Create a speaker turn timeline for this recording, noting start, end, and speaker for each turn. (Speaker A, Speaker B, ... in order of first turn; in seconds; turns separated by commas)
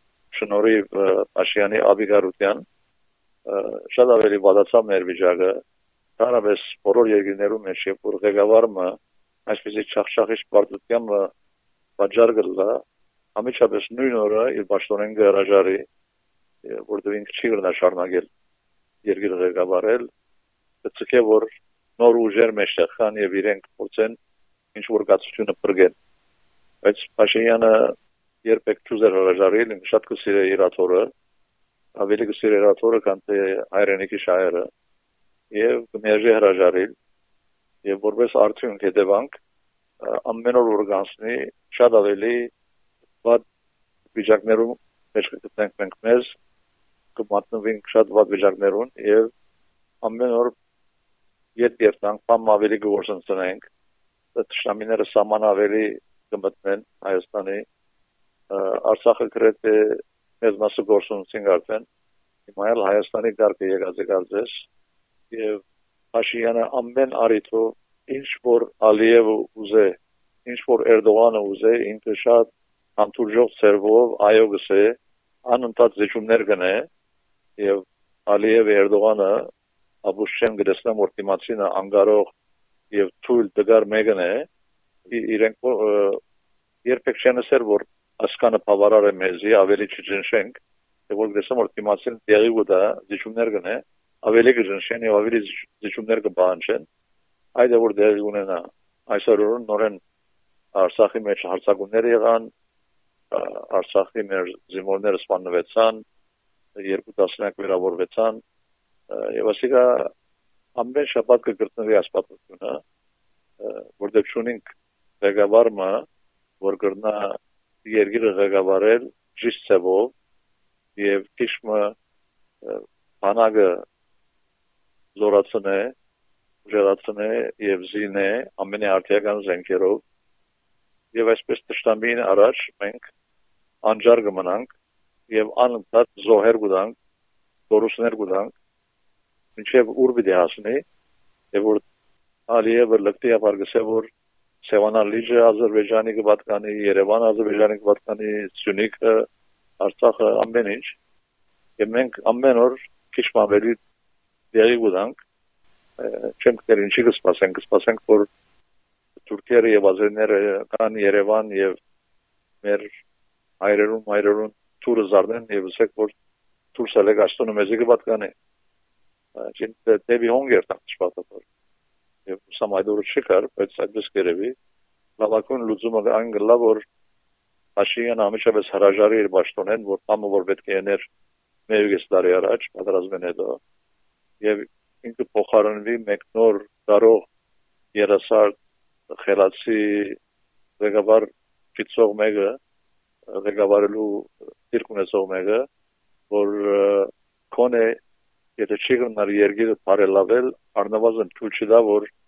Speaker A: 0.3-2.6, Speaker A: 3.5-5.6, Speaker A: 6.2-8.9, Speaker A: 9.5-11.3, Speaker A: 12.0-12.8, Speaker A: 13.4-15.8, Speaker A: 16.7-18.3, Speaker A: 19.1-20.1, Speaker A: 20.8-24.2, Speaker A: 24.8-25.9, Speaker A: 26.8-27.9, Speaker A: 28.4-31.1, Speaker A: 32.0-34.7, Speaker A: 35.5-36.9, Speaker A: 37.9-39.3, Speaker A: 40.0-42.5, Speaker A: 44.1-46.3, Speaker A: 47.1-49.3, Speaker A: 50.0-50.5, Speaker A: 51.6-53.6, Speaker A: 54.4-57.6, Speaker A: 58.5-61.9, Speaker A: 62.5-64.7, Speaker A: 65.3-65.6, Speaker A: 66.1-75.0, Speaker A: 75.5-76.9, Speaker A: 77.6-79.5, Speaker A: 80.0-82.3, Speaker A: 82.9-84.5, Speaker A: 85.1-86.2, Speaker A: 86.8-90.6, Speaker A: 91.1-96.8, Speaker A: 97.6-100.0, Speaker A: 100.8-102.5, Speaker A: 103.3-106.0, Speaker A: 106.8-108.4, Speaker A: 109.1-110.1, Speaker A: 110.8-112.8, Speaker A: 113.6-114.7, Speaker A: 115.2-116.0, Speaker A: 116.6-120.1, Speaker A: 121.0-121.9, Speaker A: 122.6-123.8, Speaker A: 125.2-125.9, Speaker A: 126.7-130.0, Speaker A: 131.1-133.1, Speaker A: 133.8-134.7, Speaker A: 135.3-136.9, Speaker A: 137.7-138.5, Speaker A: 139.6-140.8, Speaker A: 141.5-141.8, Speaker A: 142.5-144.1, Speaker A: 144.7-149.3, Speaker A: 149.8-151.0, Speaker A: 151.8-153.8, Speaker A: 154.5-155.2, Speaker A: 156.0-158.3, Speaker A: 159.3-161.8, Speaker A: 162.6-162.9, Speaker A: 163.6-166.1, Speaker A: 166.8-168.3, Speaker A: 169.4-171.4, Speaker A: 172.3-174.6, Speaker A: 175.2-176.8, Speaker A: 177.8-181.0, Speaker A: 181.7-183.6, Speaker A: 184.4-187.3, Speaker A: 187.9-188.6, Speaker A: 189.1-190.2, Speaker A: 190.8-192.6, Speaker A: 193.3-195.7, Speaker A: 196.3-198.0, Speaker A: 198.6-202.1